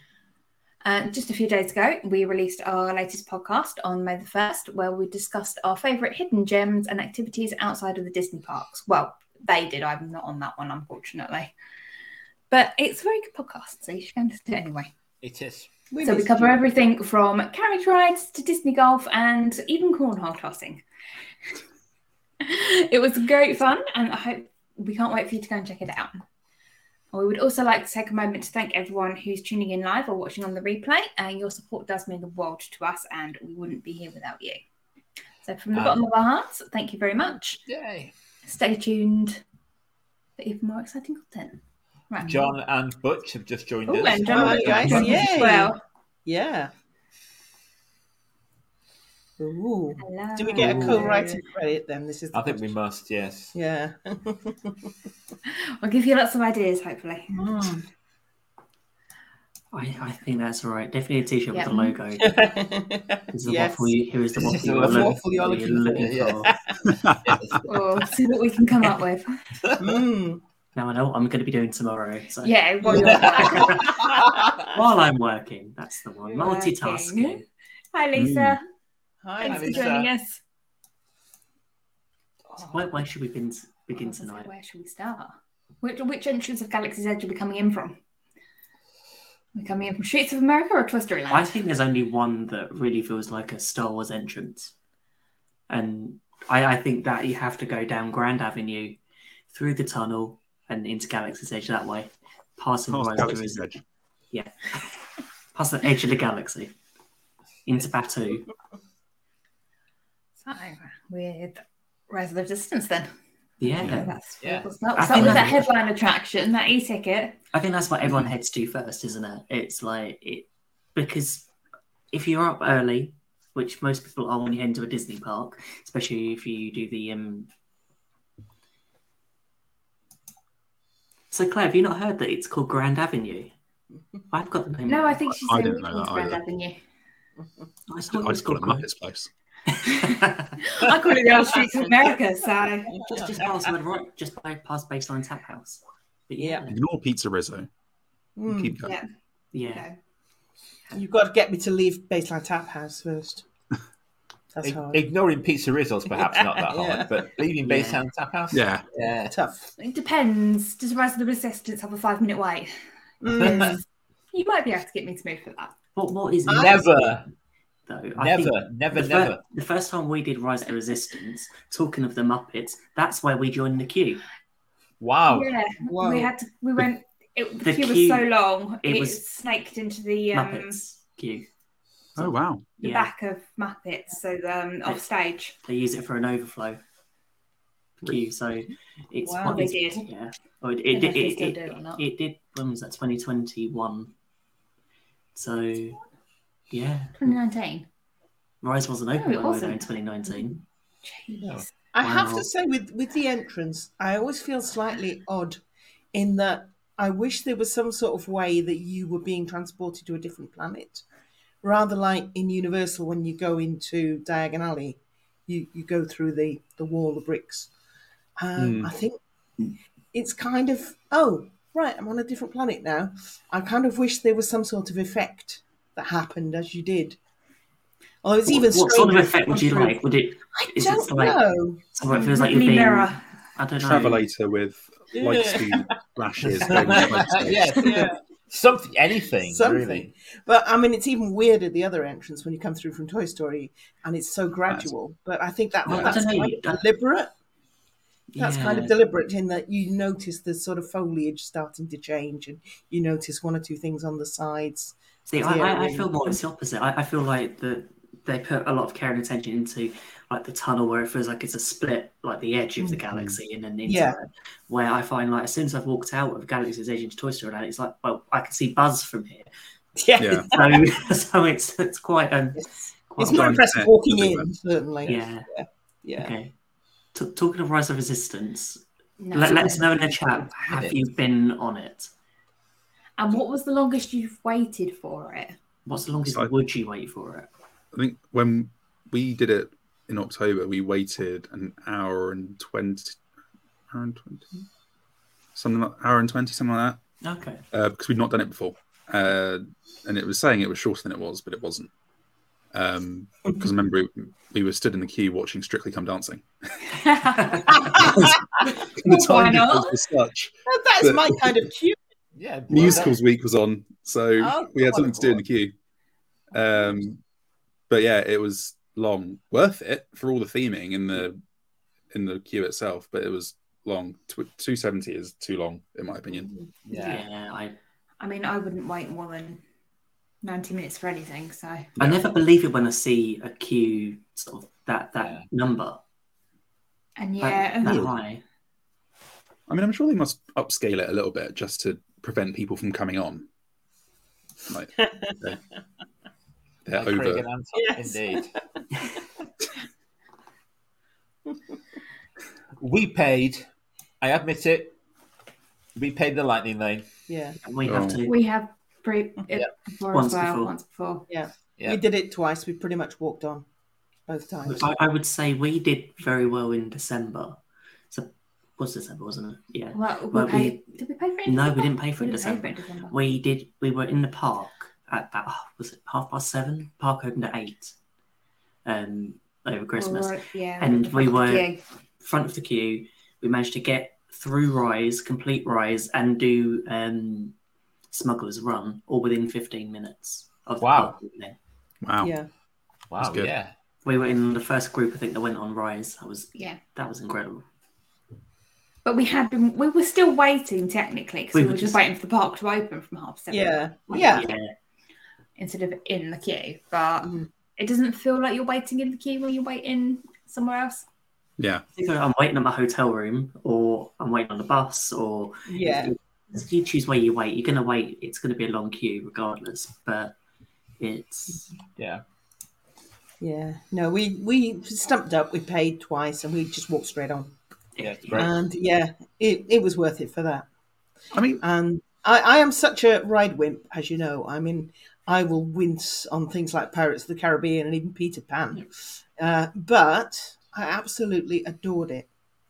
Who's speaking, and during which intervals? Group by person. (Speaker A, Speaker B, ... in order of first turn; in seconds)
Speaker A: 0.8-11.5, 12.5-14.9, 16.0-20.8, 22.4-26.2, 27.1-34.6, 35.4-37.6, 38.5-39.4, 40.4-42.5, 43.9-45.8, 50.0-51.5, 55.5-57.7, 61.5-62.0, 67.7-69.4, 72.4-74.0, 76.3-77.4, 77.9-78.6, 79.4-80.4, 83.9-88.0, 89.5-91.5, 110.4-111.6, 112.1-113.1, 113.6-117.4, 134.9-136.8, 140.6-143.0, 148.8-149.1, 149.6-150.0, 159.8-162.8, 163.4-163.8, 164.3-165.7, 175.3-180.8, 182.8-185.6, 189.4-190.1, 190.9-192.0, 197.2-197.9, 199.2-201.7, 232.1-233.3, 279.2-279.9, 283.2-285.5, 306.9-308.1, 309.0-309.9, 328.2-329.6, 330.4-331.9, 337.2-338.1, 358.2-361.3, 369.9-373.1, 380.0-381.8, 399.1-403.8, 405.6-411.1
Speaker B: 15.2-15.9, 35.7-36.0, 37.6-38.1, 42.2-45.5, 52.3-53.5, 64.4-66.5, 67.2-67.7, 72.9-74.6, 79.4-80.1, 114.4-115.5, 154.6-159.3, 163.4-163.7, 166.5-167.3, 168.2-169.4, 175.0-175.5, 236.6-240.1, 280.5-281.0, 312.4-313.2, 326.9-327.2, 346.9-348.5, 352.8-353.7, 354.2-355.0, 356.0-357.1, 390.8-391.1, 393.1-393.7, 422.0-422.2, 428.0-428.5
Speaker C: 15.9-16.6, 44.3-45.7, 46.3-46.7, 49.4-52.7, 53.5-54.9, 57.3-57.8, 62.2-63.9, 64.8-66.8, 69.8-70.4, 72.9-73.8, 79.2-79.9, 148.4-148.8, 150.9-153.4, 154.5-155.0, 156.1-157.2, 159.3-159.7, 163.2-163.8, 166.5-166.7, 175.9-176.3, 189.2-189.6, 201.9-205.6, 206.1-211.0, 211.6-217.7, 218.4-227.2, 228.2-230.0, 230.5-231.8, 235.2-235.8, 237.8-238.2, 239.4-247.3, 248.4-256.4, 263.9-264.2, 270.0-270.8, 272.6-276.3, 307.9-308.3, 310.7-312.0, 314.4-315.4, 345.1-345.3, 347.7-348.4, 357.3-357.6, 361.3-363.7, 364.3-364.9, 392.2-392.5, 403.5-404.5, 415.7-416.1, 423.4-427.6, 428.4-430.7, 431.6-442.3
Speaker D: 50.6-51.1, 59.7-62.4, 63.3-66.5, 70.8-74.0, 74.7-77.5, 82.6-84.5, 91.3-94.7, 95.7-99.0, 99.5-103.8, 104.3-106.7, 107.7-108.5, 113.6-114.1, 115.0-115.7, 117.5-121.5, 122.1-127.5, 131.3-133.5, 134.3-135.2, 137.9-138.9, 139.7-140.6, 143.0-146.8, 149.5-149.9, 157.6-158.1, 165.9-167.2, 167.9-174.2, 177.6-178.3, 178.8-179.2, 180.3-181.5, 182.2-183.1, 185.6-186.8, 188.0-194.1, 195.3-196.0, 196.7-197.2, 198.6-200.6, 202.0-202.5, 228.5-234.3, 245.8-246.8, 248.3-248.9, 255.3-269.5, 270.5-273.6, 275.1-275.5, 276.2-276.5, 277.1-282.1, 285.9-287.5, 297.2-297.6, 326.9-327.8, 332.0-336.0, 337.4-338.4, 357.6-358.4, 360.1-360.7, 364.6-367.6, 368.1-370.8, 371.4-377.9, 378.9-381.7, 382.2-387.6, 388.1-391.6, 394.1-397.7, 401.5-402.0, 404.1-404.7, 411.9-420.4, 421.0-421.7, 428.0-428.5
Speaker E: 66.9-67.4, 78.1-78.6, 102.9-103.8, 113.8-114.1, 135.3-136.4, 138.1-139.3, 146.7-147.7, 148.5-149.0, 158.5-158.9, 182.2-182.7, 218.6-218.9, 233.8-237.8, 270.2-270.5, 273.2-274.5, 287.9-293.2, 293.9-294.7, 295.6-297.0, 297.7-301.9, 302.7-306.5, 307.9-311.6, 312.7-315.7, 316.5-317.2, 317.9-321.4, 322.1-326.5, 337.8-338.1, 339.7-343.5, 344.7-345.6, 346.9-347.5, 357.8-358.2, 392.0-392.3, 393.2-393.5, 411.6-411.8, 431.3-431.6